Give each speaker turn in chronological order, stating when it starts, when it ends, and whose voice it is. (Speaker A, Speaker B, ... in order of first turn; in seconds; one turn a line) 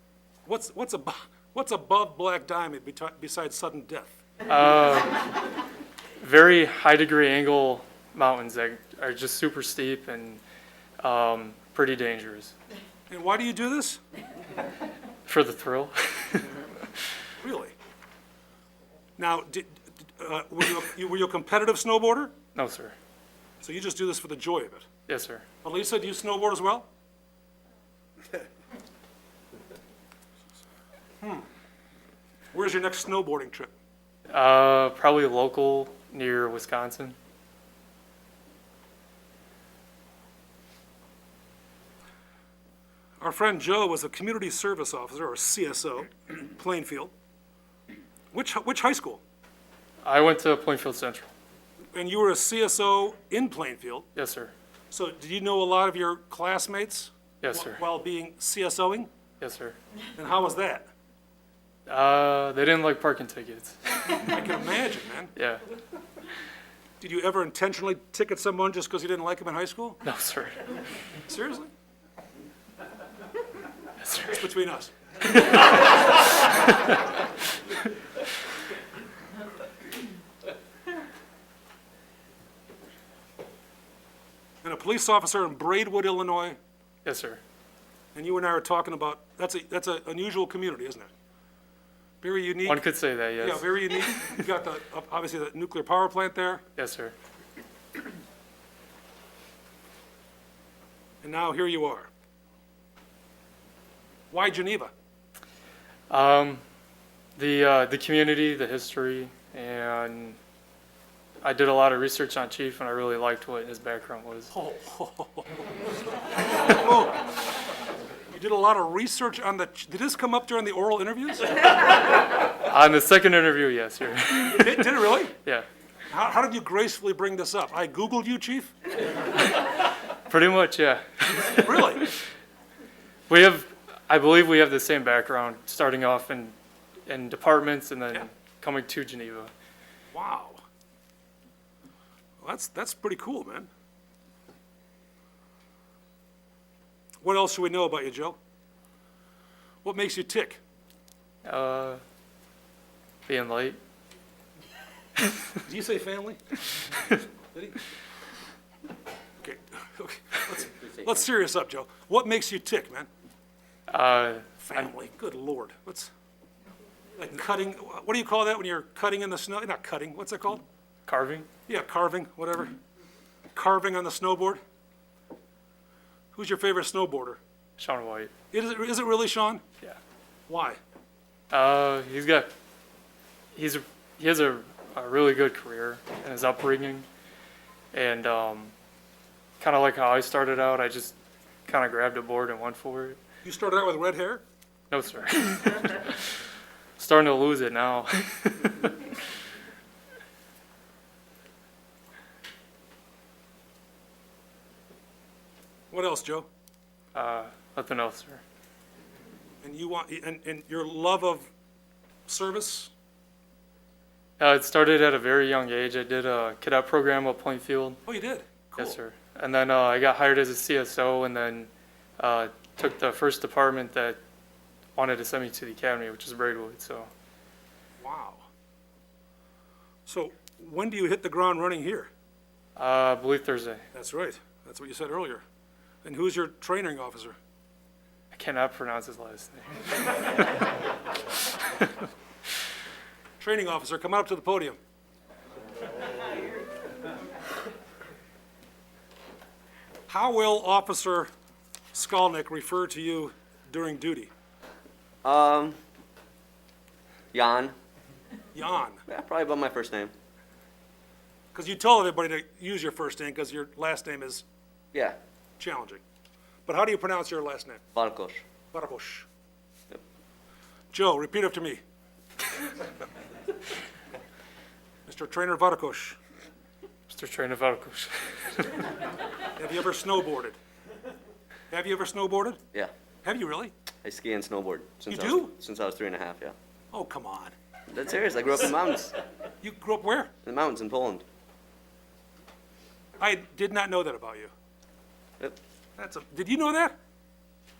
Speaker A: 0.5-4.2
Speaker B: 4.5-5.3
Speaker B: 6.2-10.4
Speaker B: 11.0-12.5
Speaker A: 13.1-14.0
Speaker B: 15.2-16.7
Speaker A: 17.4-17.7
Speaker A: 19.2-22.3
Speaker B: 22.6-22.9
Speaker A: 23.6-24.9
Speaker B: 25.1-25.4
Speaker A: 25.6-26.9
Speaker A: 32.5-33.7
Speaker B: 34.3-37.1
Speaker A: 43.2-47.1
Speaker A: 48.3-49.2
Speaker B: 50.0-51.3
Speaker A: 51.9-54.1
Speaker B: 54.1-54.5
Speaker A: 54.9-59.1
Speaker B: 57.4-57.8
Speaker B: 59.4-59.8
Speaker A: 60.1-60.9
Speaker B: 61.9-64.2
Speaker A: 64.2-65.3
Speaker B: 65.3-65.6
Speaker A: 67.0-70.0
Speaker B: 70.0-70.8
Speaker A: 71.3-71.7
Speaker B: 74.0-74.5
Speaker A: 74.3-74.9
Speaker B: 75.3-77.2
Speaker A: 84.6-86.6
Speaker B: 87.0-87.4
Speaker A: 88.1-91.1
Speaker A: 92.2-92.8
Speaker B: 92.6-94.2
Speaker A: 93.4-96.6
Speaker B: 96.8-97.1
Speaker A: 101.2-102.1
Speaker A: 104.3-104.9
Speaker B: 106.1-106.6
Speaker B: 107.3-110.4
Speaker B: 111.4-114.5
Speaker A: 114.5-115.5
Speaker A: 116.6-117.2
Speaker A: 118.3-121.6
Speaker B: 122.5-124.9
Speaker A: 124.4-125.3
Speaker A: 126.1-128.7
Speaker B: 130.3-132.1
Speaker A: 131.3-132.1
Speaker B: 133.3-136.5
Speaker B: 137.1-139.5
Speaker A: 140.1-140.6
Speaker A: 142.4-143.7
Speaker A: 147.2-148.4
Speaker A: 149.8-150.6
Speaker B: 151.4-152.0
Speaker B: 153.3-153.8
Speaker A: 155.6-156.6
Speaker A: 157.5-157.8
Speaker A: 159.4-163.1
Speaker B: 163.9-164.9
Speaker A: 164.6-166.1
Speaker A: 167.2-170.6
Speaker B: 171.1-171.5
Speaker A: 171.7-172.7
Speaker A: 173.5-174.6
Speaker A: 176.3-177.4
Speaker B: 177.8-178.3
Speaker A: 178.5-179.6
Speaker A: 180.5-180.8
Speaker B: 181.5-182.5
Speaker B: 183.6-187.1
Speaker B: 187.9-188.7
Speaker B: 189.6-191.1
Speaker B: 191.7-193.2
Speaker A: 193.4-194.4
Speaker B: 194.9-196.3
Speaker B: 197.0-199.1
Speaker A: 205.9-206.5
Speaker B: 207.1-208.4
Speaker A: 209.6-211.5
Speaker A: 212.3-212.9
Speaker B: 214.4-218.0
Speaker A: 218.1-219.0
Speaker B: 218.8-224.2
Speaker B: 224.9-227.1
Speaker A: 228.0-228.5
Speaker A: 230.0-232.1
Speaker B: 232.8-233.8
Speaker A: 233.9-235.4
Speaker A: 236.0-237.4
Speaker B: 238.3-240.7
Speaker A: 243.4-244.8
Speaker A: 250.1-251.3
Speaker A: 251.9-254.3
Speaker C: 255.2-255.8
Speaker C: 257.3-257.8
Speaker A: 258.5-259.0
Speaker C: 259.1-260.1
Speaker A: 261.5-264.4
Speaker C: 264.9-265.2
Speaker A: 265.6-266.0
Speaker A: 266.7-267.8
Speaker C: 267.9-268.4
Speaker A: 268.7-269.3
Speaker A: 270.9-271.8
Speaker A: 275.1-276.2
Speaker B: 277.1-279.0
Speaker A: 279.5-280.6
Speaker A: 281.7-282.6
Speaker A: 283.2-283.7
Speaker C: 284.0-286.5
Speaker A: 285.1-285.5
Speaker A: 286.9-287.5
Speaker C: 287.9-289.2
Speaker A: 289.6-290.3
Speaker C: 290.4-291.2
Speaker A: 293.2-294.5
Speaker A: 296.0-296.9